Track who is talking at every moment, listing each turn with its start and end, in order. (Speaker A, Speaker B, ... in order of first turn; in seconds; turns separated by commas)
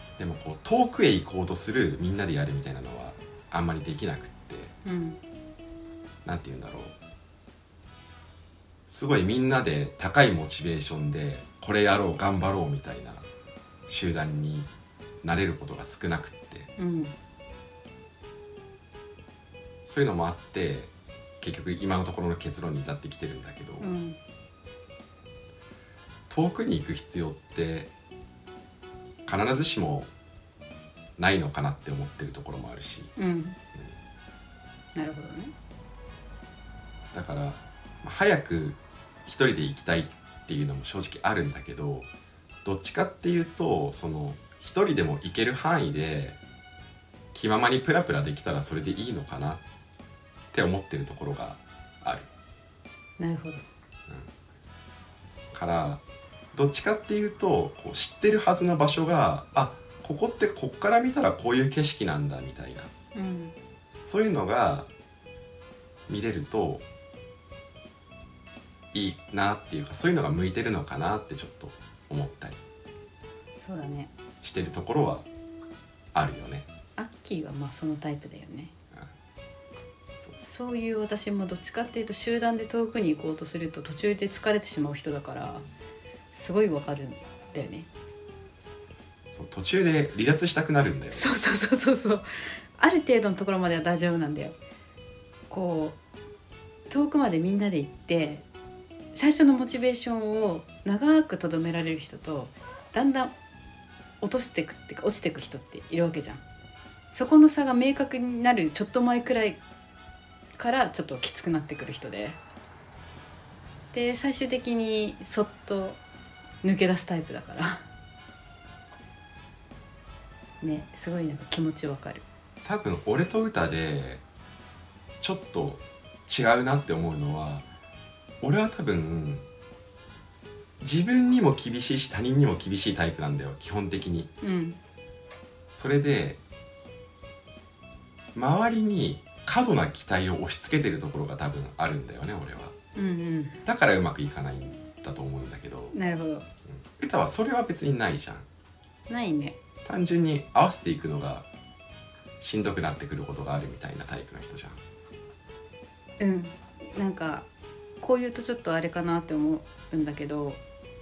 Speaker A: 0.2-4.7, Speaker B: 4.8-5.2, Speaker A: 6.2-7.0, Speaker A: 8.9-13.3, Speaker A: 13.9-14.7, Speaker A: 15.2-16.7, Speaker B: 16.8-17.1, Speaker A: 19.9-23.9, Speaker B: 23.8-24.2, Speaker A: 26.3-27.9, Speaker A: 29.3-30.1, Speaker A: 31.2-33.1, Speaker B: 33.2-33.6, Speaker B: 35.0-35.5, Speaker A: 37.1-42.1, Speaker A: 42.6-46.4, Speaker A: 47.3-49.6, Speaker A: 50.5-52.3, Speaker B: 53.2-53.6, Speaker A: 55.5-56.0, Speaker A: 56.5-62.9, Speaker B: 63.1-63.6, Speaker A: 64.0-64.9, Speaker A: 66.1-66.8, Speaker A: 68.9-72.6, Speaker B: 73.6-74.1, Speaker A: 74.4-75.3, Speaker A: 76.1-76.7, Speaker B: 77.0-78.7, Speaker A: 80.2-80.5, Speaker B: 80.4-85.7, Speaker B: 86.3-87.9, Speaker A: 89.3-91.3, Speaker B: 91.1-94.6, Speaker B: 95.5-96.0, Speaker B: 96.9-98.5, Speaker B: 99.2-103.3, Speaker B: 104.2-106.4, Speaker B: 107.1-109.6, Speaker B: 110.6-112.4, Speaker B: 113.9-116.0, Speaker B: 116.6-117.8, Speaker B: 120.6-122.2, Speaker A: 122.6-124.2, Speaker A: 125.2-127.7, Speaker A: 128.4-129.4, Speaker A: 130.8-134.3, Speaker B: 134.4-134.8, Speaker A: 135.8-136.4, Speaker A: 138.3-142.8, Speaker B: 143.0-143.6, Speaker A: 143.7-145.9, Speaker B: 145.9-146.5, Speaker A: 146.8-148.5, Speaker B: 149.1-149.6, Speaker A: 149.8-151.5, Speaker A: 152.4-154.8, Speaker B: 156.2-157.5, Speaker B: 158.0-160.6